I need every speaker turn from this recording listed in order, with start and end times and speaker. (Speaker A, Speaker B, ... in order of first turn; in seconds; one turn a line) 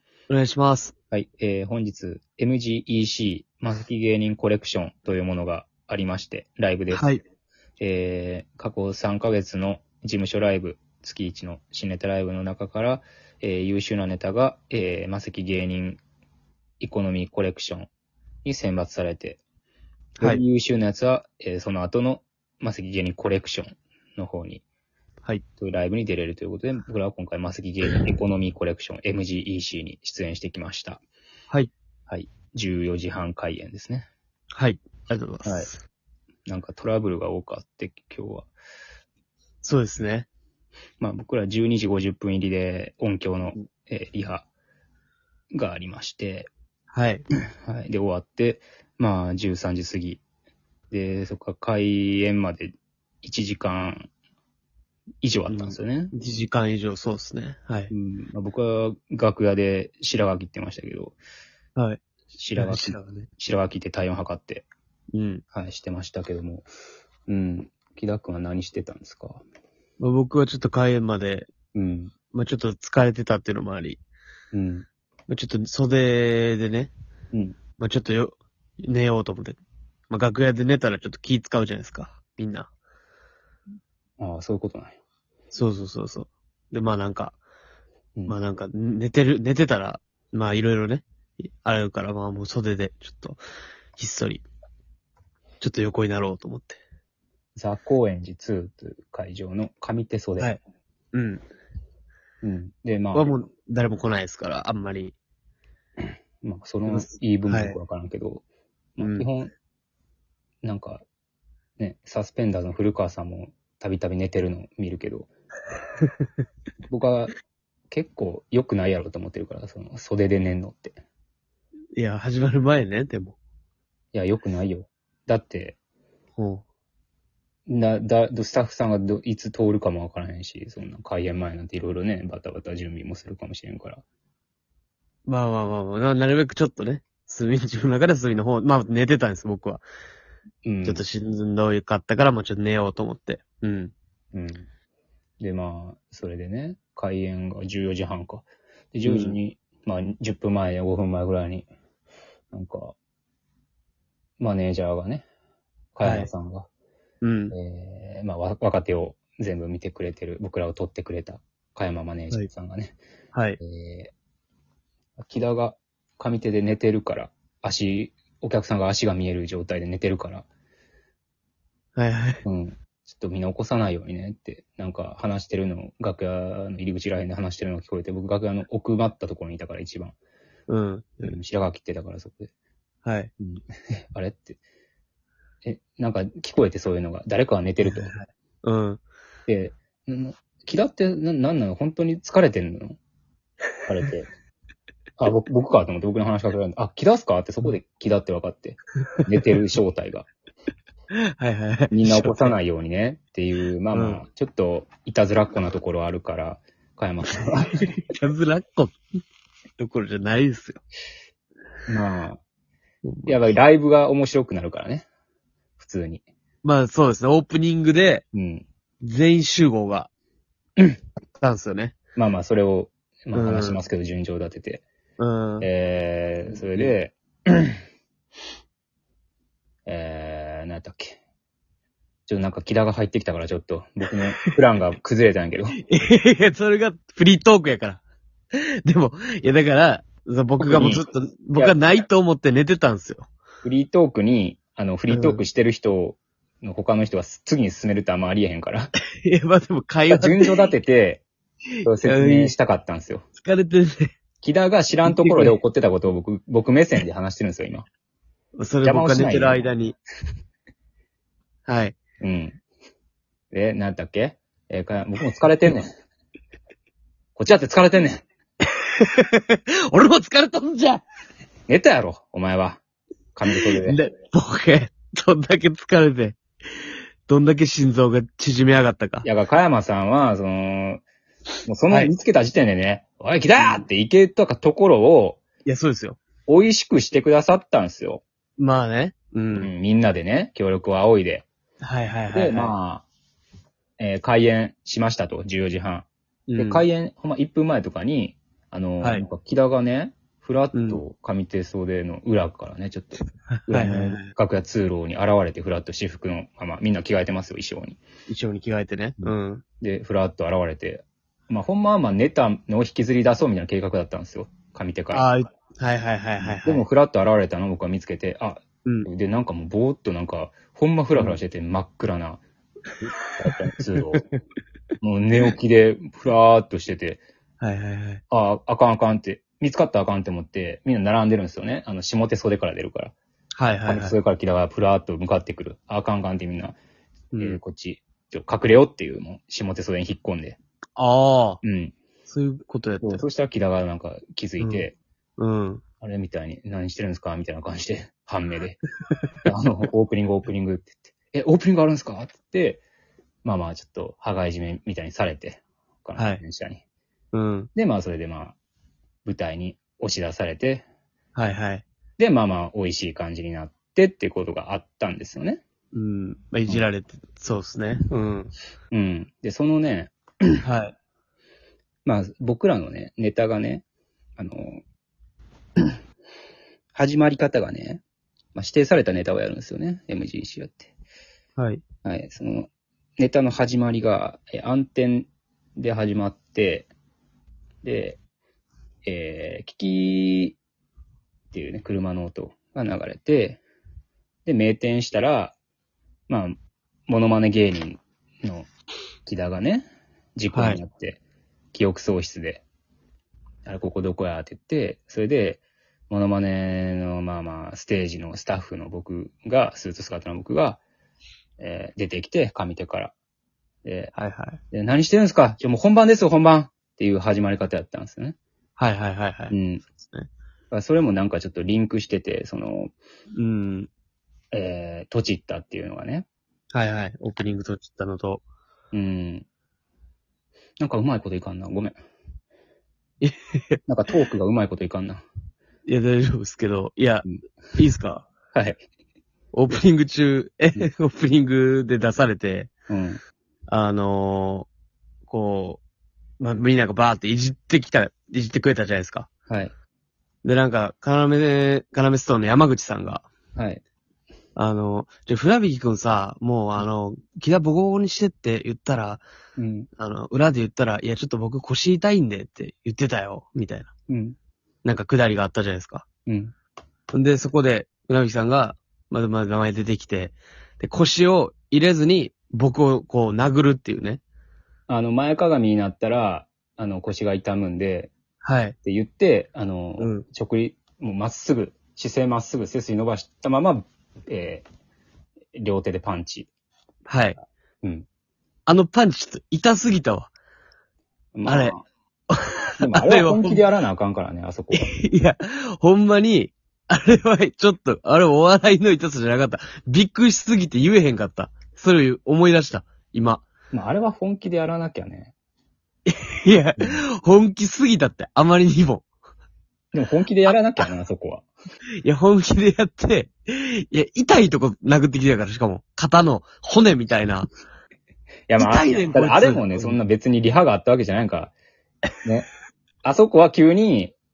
Speaker A: 0.3-0.9
Speaker B: 1.1-7.1
Speaker A: 6.9-7.2
Speaker B: 7.8-16.0
Speaker B: 16.8-17.9
Speaker B: 18.4-19.4
Speaker A: 20.2-20.4
Speaker B: 20.2-24.6
Speaker B: 25.6-31.0
Speaker B: 32.1-34.1
Speaker A: 34.5-35.7
Speaker B: 35.5-35.7
Speaker B: 36.5-38.5
Speaker A: 39.6-40.3
Speaker B: 41.0-44.5
Speaker B: 45.5-46.5
Speaker A: 46.9-47.2
Speaker B: 47.6-50.2
Speaker B: 50.9-54.1
Speaker B: 55.2-56.1
Speaker A: 55.5-57.9
Speaker B: 57.9-61.2
Speaker A: 61.8-62.0
Speaker B: 62.4-64.7
Speaker A: 62.6-63.3
Speaker A: 65.1-65.4
Speaker B: 65.5-66.7
Speaker B: 67.3-69.4
Speaker A: 70.0-71.5
Speaker B: 71.7-72.1
Speaker A: 72.3-74.0
Speaker B: 74.5-74.9
Speaker A: 75.3-76.9
Speaker A: 77.8-82.7
Speaker B: 84.2-85.0
Speaker A: 85.5-87.4
Speaker A: 88.3-93.4
Speaker A: 94.0-94.5
Speaker A: 95.6-96.8
Speaker B: 97.6-100.5
Speaker A: 101.1-101.5
Speaker B: 102.4-103.3
Speaker A: 103.1-105.2
Speaker B: 106.4-108.4
Speaker A: 106.9-107.8
Speaker B: 109.0-109.5
Speaker A: 109.0-109.3
Speaker B: 110.6-111.0
Speaker B: 111.8-115.3
Speaker B: 116.9-117.3
Speaker B: 117.9-121.0
Speaker A: 122.0-123.4
Speaker B: 124.1-125.8
Speaker A: 126.4-126.6
Speaker B: 127.7-134.0
Speaker A: 135.3-139.8
Speaker B: 140.7-141.0
Speaker A: 140.8-143.9
Speaker B: 144.3-144.7
Speaker B: 145.4-151.7
Speaker A: 149.0-149.4
Speaker B: 152.5-153.0
Speaker B: 154.4-155.3
Speaker B: 155.9-156.7
Speaker A: 156.0-156.3
Speaker A: 157.2-157.6
Speaker B: 157.5-163.0
Speaker A: 163.3-163.6
Speaker B: 163.6-164.1
Speaker B: 165.2-170.5
Speaker A: 172.0-172.4
Speaker B: 172.4-180.2
Speaker A: 180.7-181.4
Speaker B: 181.2-182.5
Speaker A: 183.0-183.3
Speaker B: 183.4-184.6
Speaker B: 185.6-188.1
Speaker A: 187.9-189.0
Speaker B: 189.5-193.0
Speaker B: 193.9-194.3
Speaker B: 195.2-200.3
Speaker A: 201.1-202.6
Speaker B: 201.9-207.8
Speaker A: 203.9-204.2
Speaker A: 207.4-209.0
Speaker A: 209.8-210.8
Speaker B: 211.9-212.4
Speaker A: 213.1-213.4
Speaker B: 213.2-215.1
Speaker B: 215.8-216.2
Speaker A: 216.6-218.2
Speaker B: 218.3-218.7
Speaker A: 219.0-220.1
Speaker A: 221.4-221.9
Speaker B: 222.2-224.8
Speaker A: 223.3-223.8
Speaker A: 225.2-225.7
Speaker B: 225.6-227.8
Speaker A: 226.5-226.9
Speaker B: 229.9-231.2
Speaker B: 232.3-235.8
Speaker A: 235.9-238.0
Speaker A: 238.6-243.3
Speaker B: 240.6-241.1
Speaker B: 243.6-248.9
Speaker A: 245.1-245.4
Speaker A: 249.2-250.6
Speaker B: 250.1-251.2
Speaker B: 251.8-253.2
Speaker A: 252.0-252.6
Speaker A: 253.4-254.1
Speaker B: 254.4-257.9
Speaker A: 255.1-255.6
Speaker A: 258.6-260.0
Speaker B: 258.8-259.7
Speaker A: 261.7-262.0
Speaker B: 262.2-262.6
Speaker B: 263.5-265.9
Speaker B: 267.4-268.2
Speaker A: 268.8-271.0
Speaker B: 271.7-272.8
Speaker B: 273.4-274.0
Speaker A: 273.5-276.4
Speaker A: 277.3-279.3
Speaker B: 279.2-281.0
Speaker B: 281.7-285.4
Speaker A: 281.9-282.1
Speaker A: 285.6-286.2
Speaker B: 286.5-288.2
Speaker A: 288.6-289.7
Speaker B: 289.6-291.5
Speaker A: 291.8-292.7
Speaker B: 292.3-293.1
Speaker B: 294.0-308.0
Speaker A: 296.5-296.9
Speaker A: 299.0-299.2
Speaker A: 300.7-301.0
Speaker A: 303.7-304.3
Speaker A: 308.3-309.6
Speaker B: 309.2-315.3
Speaker A: 315.1-316.8
Speaker B: 316.4-322.4
Speaker B: 323.0-324.2
Speaker B: 325.0-327.2
Speaker A: 327.6-328.2
Speaker B: 328.3-333.1
Speaker A: 333.6-334.2
Speaker B: 333.9-336.8
Speaker A: 337.3-337.6
Speaker B: 337.4-340.6
Speaker A: 341.0-341.6
Speaker B: 341.6-341.9
Speaker A: 342.3-343.2
Speaker B: 343.0-345.0
Speaker A: 344.6-344.9
Speaker A: 345.4-345.8
Speaker B: 346.0-348.8
Speaker B: 349.4-352.8
Speaker B: 353.4-356.8
Speaker A: 356.2-356.4
Speaker A: 357.3-357.7
Speaker B: 357.8-358.6
Speaker B: 359.2-360.9
Speaker A: 361.4-361.9
Speaker B: 362.2-365.6
Speaker A: 365.9-368.5
Speaker B: 368.9-370.5
Speaker A: 370.6-370.9
Speaker B: 372.1-373.9
Speaker B: 374.4-374.8
Speaker B: 376.9-378.0
Speaker B: 378.6-380.9
Speaker A: 381.6-381.8
Speaker B: 382.1-386.9
Speaker B: 387.8-388.2
Speaker B: 389.1-390.6
Speaker B: 391.5-393.6
Speaker B: 394.5-395.6
Speaker B: 396.3-396.6
Speaker B: 397.1-398.7
Speaker B: 399.3-401.2
Speaker A: 400.5-400.8
Speaker B: 401.7-402.6
Speaker B: 403.6-410.8
Speaker B: 411.6-413.1
Speaker B: 413.8-414.1
Speaker A: 414.1-414.6
Speaker B: 414.7-418.4
Speaker A: 418.8-420.3
Speaker B: 419.5-419.9
Speaker B: 420.7-422.9
Speaker A: 423.4-423.9
Speaker B: 424.5-426.3
Speaker A: 426.7-428.4
Speaker B: 428.9-429.5
Speaker B: 430.8-432.0
Speaker A: 433.2-433.8
Speaker B: 433.9-435.2
Speaker A: 435.9-438.3
Speaker B: 438.5-438.8
Speaker A: 439.5-442.7
Speaker B: 442.9-443.2
Speaker A: 443.7-444.7
Speaker A: 445.3-445.8
Speaker A: 446.4-449.3
Speaker A: 450.4-453.3
Speaker B: 453.6-453.8
Speaker A: 454.6-459.2
Speaker B: 459.6-459.9
Speaker A: 460.0-463.9
Speaker B: 464.1-464.4
Speaker A: 464.8-466.1
Speaker B: 466.3-466.5
Speaker A: 467.1-474.2
Speaker B: 474.9-478.1
Speaker A: 478.4-478.8
Speaker B: 478.8-484.7
Speaker A: 480.0-480.2
Speaker B: 485.6-486.5
Speaker A: 487.1-487.4
Speaker A: 488.7-490.3
Speaker B: 491.4-491.8
Speaker A: 491.4-491.8
Speaker A: 492.3-493.6
Speaker B: 492.8-494.9
Speaker A: 494.7-503.5
Speaker B: 503.7-505.3
Speaker A: 506.1-509.1
Speaker B: 509.9-511.5
Speaker A: 512.0-517.5
Speaker B: 518.5-521.5
Speaker A: 518.6-520.0
Speaker B: 523.0-524.1